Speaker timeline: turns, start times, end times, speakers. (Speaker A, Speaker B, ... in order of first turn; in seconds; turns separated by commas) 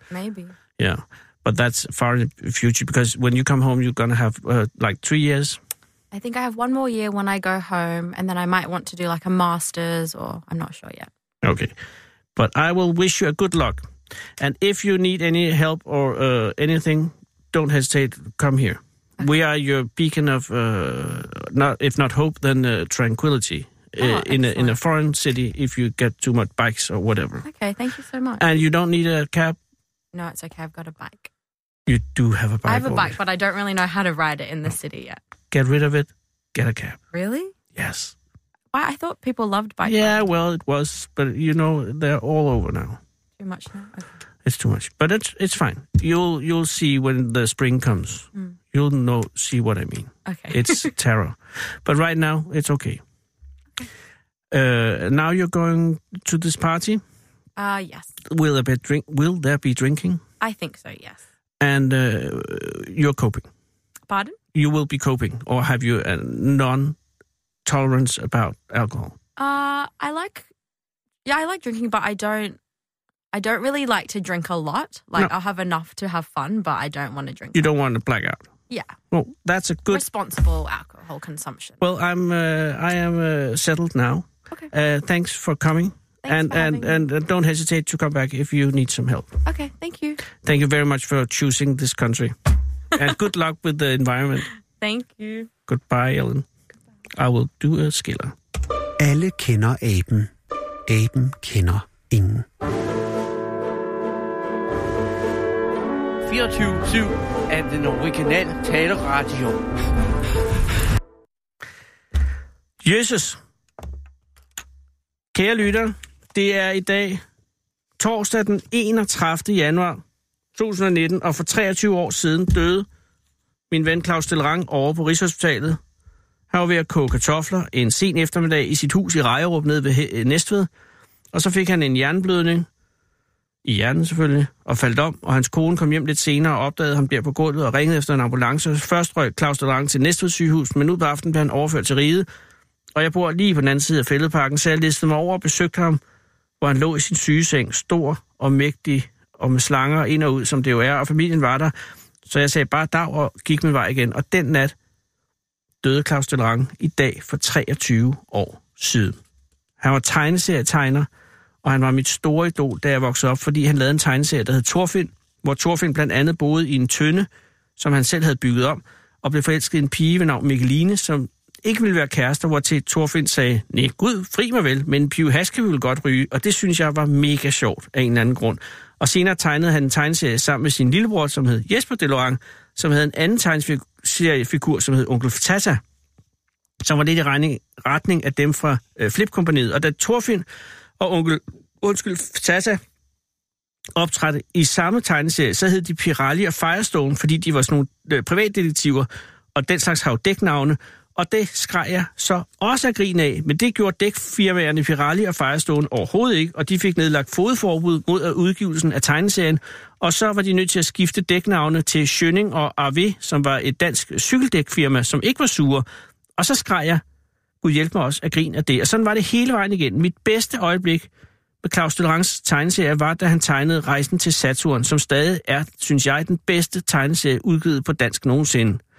Speaker A: 0.1-0.5, Speaker B: 0.8-5.6, Speaker A: 6.1-11.1, Speaker B: 11.4-11.7, Speaker B: 12.3-13.9, Speaker B: 14.4-27.4, Speaker A: 24.0-24.8, Speaker A: 27.4-28.4, Speaker B: 28.4-29.6, Speaker A: 30.1-31.3, Speaker B: 31.9-33.2, Speaker A: 32.7-35.2, Speaker B: 35.5-37.0, Speaker A: 37.1-37.5, Speaker B: 37.7-38.1, Speaker A: 38.7-40.2, Speaker B: 39.8-43.0, Speaker A: 43.4-44.1, Speaker B: 44.4-53.0, Speaker A: 50.3-50.9, Speaker B: 54.5-57.0, Speaker A: 57.6-58.1, Speaker B: 58.3-60.2, Speaker A: 60.4-61.2, Speaker B: 61.6-63.5, Speaker A: 64.1-64.4, Speaker B: 64.5-67.0, Speaker B: 67.7-69.2, Speaker A: 69.4-70.5, Speaker A: 71.2-72.6, Speaker A: 73.3-77.6, Speaker B: 77.5-78.4, Speaker B: 79.1-80.0, Speaker A: 79.9-81.8, Speaker B: 81.8-89.3, Speaker A: 86.2-87.0, Speaker A: 89.5-90.2, Speaker B: 90.4-92.3, Speaker B: 92.9-94.5, Speaker A: 94.8-95.5, Speaker B: 95.7-96.5, Speaker B: 97.2-98.3, Speaker C: 99.0-100.3, Speaker C: 100.9-102.5, Speaker D: 106.2-109.6, Speaker B: 112.8-113.4, Speaker B: 115.3-117.2, Speaker B: 118.0-120.0, Speaker B: 120.5-122.8, Speaker B: 123.7-125.8, Speaker B: 126.5-130.7, Speaker B: 131.3-132.7, Speaker B: 133.6-142.2, Speaker B: 142.9-146.0, Speaker B: 146.6-151.7, Speaker B: 152.2-154.7, Speaker B: 155.8-159.2, Speaker B: 159.8-161.1, Speaker B: 161.6-167.3, Speaker B: 167.8-185.8, Speaker B: 186.8-190.4, Speaker B: 191.0-192.8, Speaker B: 193.9-215.8, Speaker B: 216.4-217.0, Speaker B: 217.6-221.1, Speaker B: 221.6-228.8